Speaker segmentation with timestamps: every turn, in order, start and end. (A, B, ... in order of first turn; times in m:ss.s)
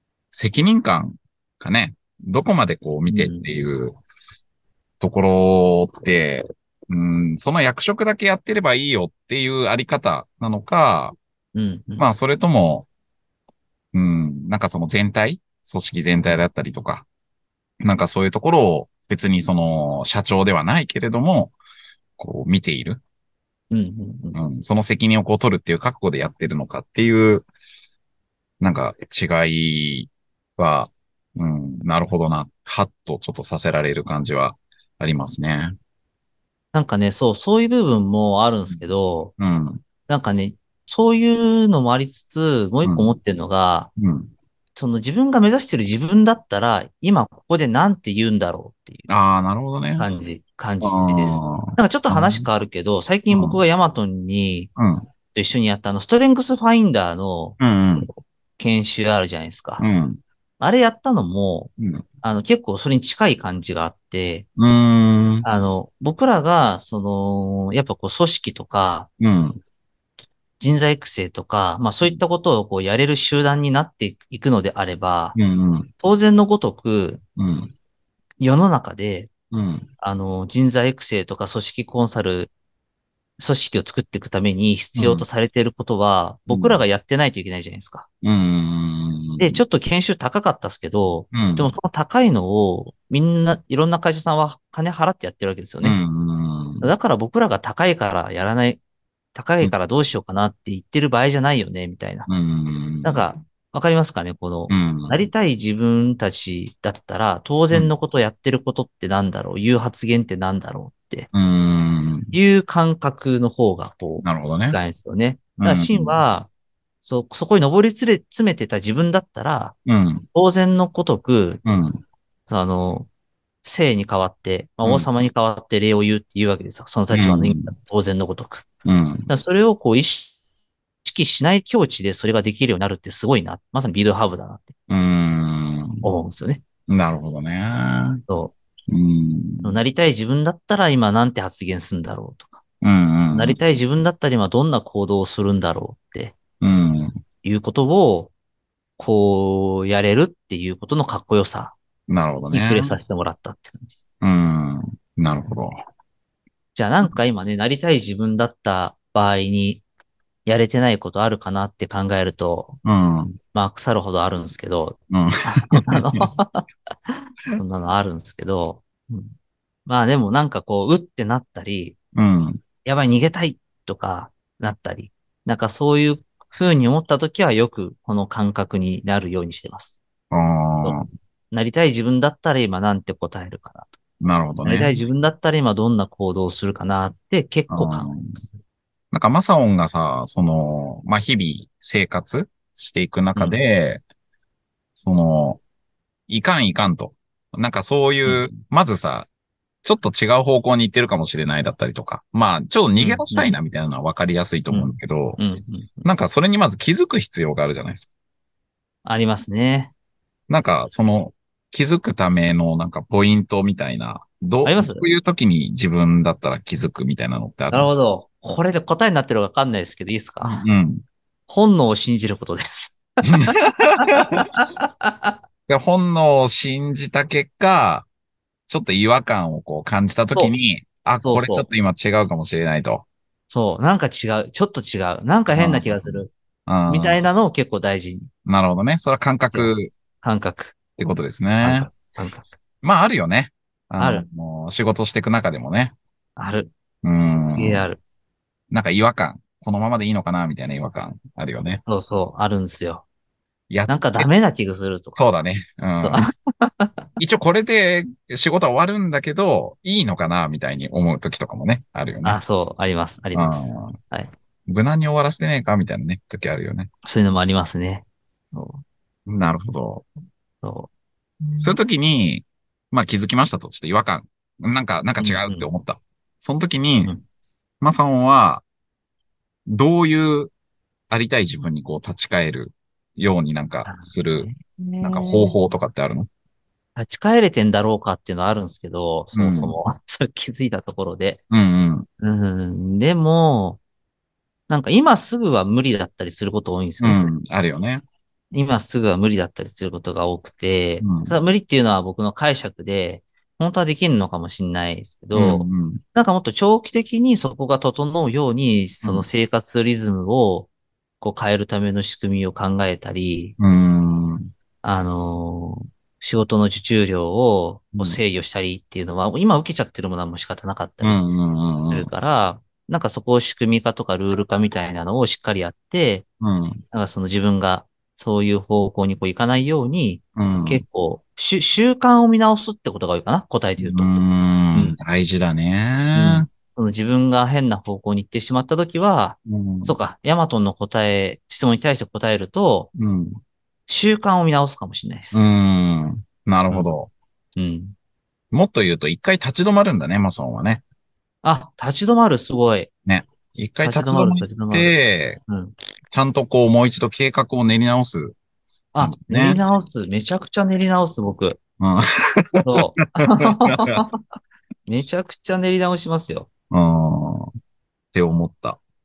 0:00.3-0:04.0 A
0:03.1-0:03.5 B
0:05.0-0:11.2 A
0:11.5-0:12.0 B
0:12.0-0:12.9 A
0:13.9-0:17.0 A
0:17.8-0:21.5 A
0:22.2-0:23.0 A
0:23.7-0:24.4 B
0:24.3-0:27.5 A
0:28.6-0:35.8 A
0:36.7-0:39.3 B
0:39.4-0:39.8 A
0:40.1-0:43.9 B
0:42.8-0:43.2 A
0:44.0-0:44.3 A
0:44.8-0:49.1 B
0:49.1-0:50.1 A
0:50.0-0:54.7 B
0:50.8-0:52.5 A
0:53.3-0:53.6 A
0:54.8-0:55.0 A
0:55.3-0:59.8 B
0:57.6-0:58.1 A
0:59.8-1:00.2 A
1:00.6-1:01.7 B
1:01.8-1:02.0 A
1:02.2-1:04.5 B
1:04.6-1:05.5 A
1:05.4-1:09.1 B
1:09.2-1:09.6 A
1:10.6-1:15.4 B
1:15.4-1:15.9 A
1:16.0-1:17.2 B
1:17.4-1:17.7 A
1:18.4-1:19.3 B
1:19.5-1:19.9 A
1:20.0-1:22.5 B
1:23.4-1:28.0 B
1:25.0-1:25.2 A
1:26.5-1:26.8 A
1:28.2-1:29.6 A
1:29.4-1:36.0 B
1:31.3-1:31.7 A
1:35.8-1:36.9 A
1:36.8-1:38.8 B
1:39.3-1:42.3 B
1:42.3-1:43.3 A
1:43.0-1:51.3 B
1:44.7-1:45.2 A
1:51.3-1:52.3 A
1:52.3-1:56.5 B
1:54.2-1:54.8 A
1:55.6-1:56.2 A
1:57.0-1:59.8 B
1:59.9-2:00.3 A
2:00.3-2:01.6 B
2:01.6-2:02.0 A
2:02.5-2:03.1 B
2:03.6-2:08.6 B
2:07.1-2:07.7 A
2:08.8-2:09.3 A
2:09.3-2:10.3 B
2:11.0-2:14.8 B
2:14.9-2:16.0 A
2:16.0-2:16.6 B
2:16.9-2:18.2 A
2:18.3-2:18.5 B
2:18.9-2:19.8 A
2:19.6-2:22.6 B
2:22.8-2:23.6 A
2:23.3-2:26.4 B
2:26.6-2:27.2 A
2:27.4-2:28.3 B
2:29.0-2:31.8 B
2:32.1-2:33.0 A
2:32.5-2:34.0 B
2:34.2-2:35.8 A
2:36.8-2:39.8 B
2:40.4-2:42.8 B
2:42.8-2:43.4 A
2:43.5-2:49.4 B
2:45.1-2:46.2 A
2:49.9-2:52.0 B
2:52.1-2:52.6 A
2:52.8-3:00.0 B
3:00.3-3:01.1 A
3:01.5-3:03.9 B
3:04.2-3:05.0 A
3:04.6-3:08.6 B
3:07.7-3:08.4 A
3:09.1-3:14.0 A
3:13.4-3:13.6 B
3:15.0-3:15.6 A
3:16.3-3:19.3 A
3:18.2-3:18.5 B
3:19.8-3:25.4 A
3:23.0-3:23.5 B
3:24.7-3:25.9 B
3:26.0-3:28.1 A
3:29.0-3:29.9 B
3:30.5-3:37.9 A
3:34.6-3:35.1 B
3:37.7-3:40.6 B
3:40.4-3:41.0 A
3:41.5-3:45.4 B
3:43.2-3:44.4 A
3:45.7-3:48.1 A
3:48.7-3:53.0 A
3:51.2-3:51.7 B
3:53.5-3:56.3 B
3:55.5-3:57.2 A
3:56.9-3:58.3 B
3:58.5-3:59.9 A
3:59.5-4:00.8 B
4:01.0-4:01.9 A
4:01.6-4:02.5 B
4:02.8-4:05.9 A
4:04.0-4:04.3 B
4:06.4-4:06.7 B
4:07.0-4:07.9 A
4:07.3-4:08.0 B
4:08.7-4:11.8 A
4:11.9-4:13.0 B
4:13.7-4:14.3 A
4:13.9-4:15.2 B
4:15.1-4:16.3 A
4:16.0-4:17.1 B
4:17.2-4:22.4 A
4:22.2-4:24.3 B
4:23.3-4:24.0 A
4:24.7-4:26.9 A
4:27.0-4:28.8 B
4:29.2-4:30.0 A
4:30.6-4:30.9 B
4:31.4-4:31.8 B
4:31.6-4:37.1 A
4:35.2-4:35.7 B
4:37.8-4:38.6 A
4:39.6-4:40.5 A
4:41.1-4:44.5 A
4:43.8-4:45.6 B
4:45.0-4:46.3 A
4:47.0-4:51.4 B
4:49.3-4:49.8 A
4:51.5-4:52.1 A
4:52.2-4:53.8 B
4:54.7-4:57.3 B
4:57.0-4:58.0 A
4:58.5-5:10.7 B
5:01.0-5:01.4 A
5:05.4-5:06.0 A
5:11.2-5:13.5 B
5:13.6-5:14.5 A
5:14.8-5:21.2 B
5:21.0-5:22.1 A
5:21.9-5:26.2 B
5:26.4-5:26.8 A
5:26.9-5:34.2 B
5:30.4-5:30.8 A
5:33.8-5:36.5 A
5:36.1-5:42.9 B
5:39.5-5:40.0 A
5:42.9-5:43.4 A
5:43.9-5:45.5 B
5:45.3-5:47.1 A
5:47.6-5:47.9 B
5:48.5-5:50.8 A
5:51.4-5:52.9 B
5:53.0-5:55.4 A
5:53.8-5:54.9 B
5:55.5-5:55.8 B
5:56.1-5:58.4 A
5:58.9-6:01.6 B
5:59.0-5:59.6 A
6:01.8-6:04.0 A
6:02.6-6:04.2 B
6:04.9-6:06.5 B
6:06.7-6:07.5 A
6:08.1-6:08.8 A